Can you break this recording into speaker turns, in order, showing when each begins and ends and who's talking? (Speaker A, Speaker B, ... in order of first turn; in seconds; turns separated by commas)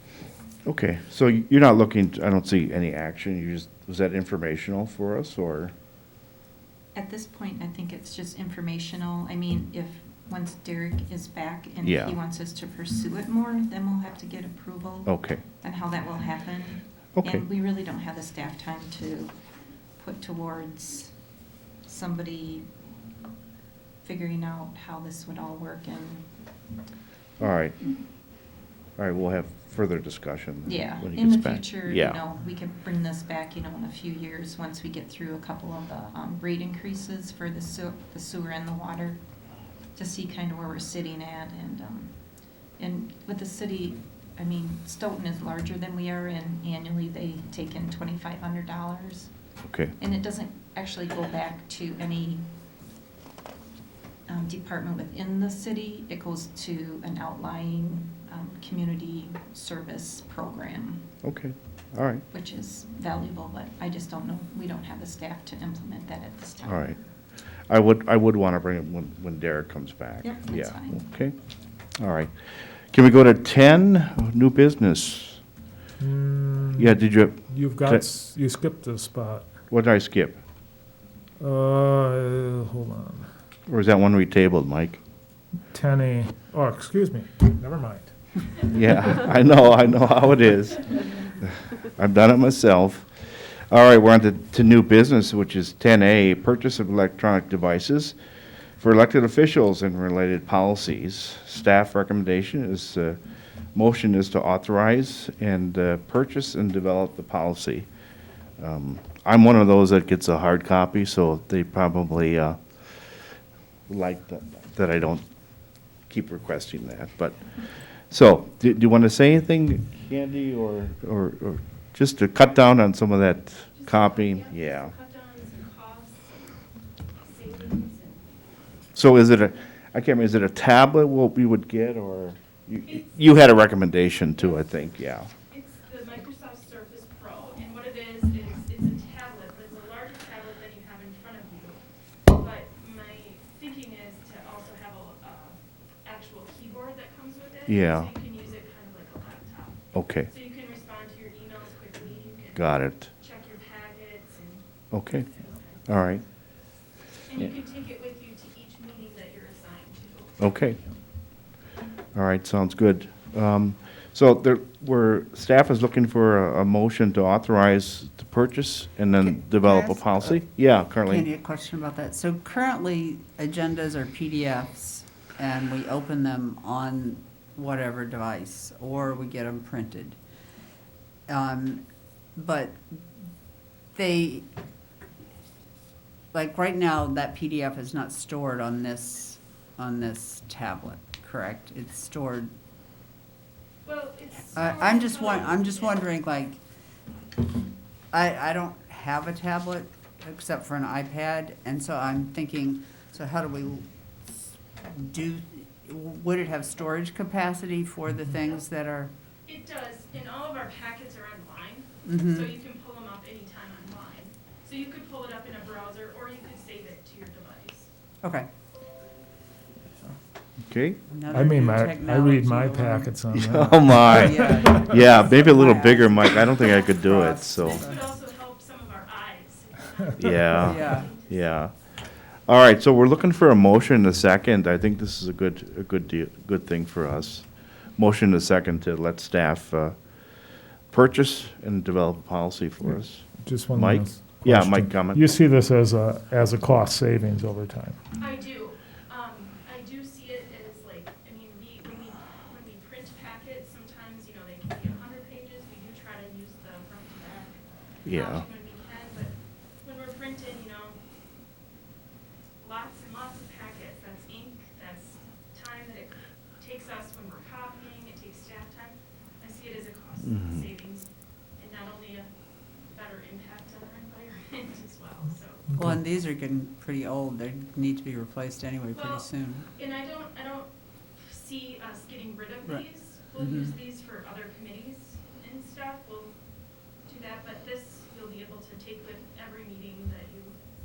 Speaker A: 0.7-5.7, Speaker B: 7.0-19.4, Speaker A: 11.8-12.2, Speaker A: 15.1-15.4, Speaker A: 17.1-17.4, Speaker B: 20.0-21.1, Speaker B: 21.8-22.7, Speaker B: 24.0-26.3, Speaker A: 27.4-27.8, Speaker A: 29.0-32.2, Speaker B: 30.7-39.2, Speaker B: 40.0-42.2, Speaker B: 42.8-49.3, Speaker A: 49.6-49.9, Speaker B: 50.0-52.5, Speaker B: 54.3-61.1, Speaker A: 61.2-62.2, Speaker B: 62.3-67.0, Speaker A: 66.7-67.0, Speaker A: 67.7-71.3, Speaker B: 70.2-71.0, Speaker A: 72.0-72.3, Speaker A: 72.9-75.4, Speaker C: 76.0-77.0, Speaker A: 76.8-78.0, Speaker C: 77.5-79.5, Speaker A: 79.7-80.4, Speaker C: 81.4-83.3, Speaker A: 83.7-85.0, Speaker C: 85.7-88.1, Speaker A: 88.7-98.2, Speaker A: 98.8-103.2, Speaker A: 103.8-107.9, Speaker A: 108.6-112.6, Speaker A: 113.9-115.2, Speaker A: 116.1-117.4, Speaker A: 118.1-124.9, Speaker D: 123.8-126.6, Speaker D: 127.2-128.3, Speaker A: 128.9-135.3, Speaker D: 132.8-133.1, Speaker D: 135.5-154.7, Speaker A: 147.7-148.1, Speaker A: 149.9-150.3, Speaker A: 152.6-153.1, Speaker A: 154.9-155.3, Speaker D: 155.3-155.9, Speaker A: 155.9-156.2, Speaker D: 157.3-160.4, Speaker A: 160.4-160.8, Speaker A: 162.2-171.3, Speaker E: 169.6-170.4, Speaker E: 171.1-180.2, Speaker E: 181.3-181.8, Speaker E: 182.4-183.0, Speaker E: 183.9-184.5, Speaker E: 186.3-192.5, Speaker D: 193.8-196.1, Speaker E: 194.5-196.6, Speaker E: 198.1-203.9, Speaker E: 204.8-209.1, Speaker D: 209.5-217.9, Speaker E: 212.1-212.5, Speaker E: 218.2-218.5, Speaker A: 220.7-221.0, Speaker E: 221.1-223.1, Speaker C: 221.3-224.9, Speaker A: 223.3-227.9, Speaker E: 224.1-228.0, Speaker D: 226.6-231.5, Speaker A: 230.2-231.7, Speaker E: 230.6-231.1, Speaker A: 232.5-240.0, Speaker A: 240.9-245.3, Speaker C: 242.9-248.0, Speaker D: 248.2-261.0, Speaker A: 258.1-258.4, Speaker D: 262.6-271.1, Speaker A: 270.2-270.6, Speaker D: 271.6-272.3, Speaker D: 272.9-275.7, Speaker C: 275.7-276.0, Speaker E: 275.8-279.7, Speaker D: 278.9-286.4, Speaker E: 283.4-283.8, Speaker D: 287.1-290.6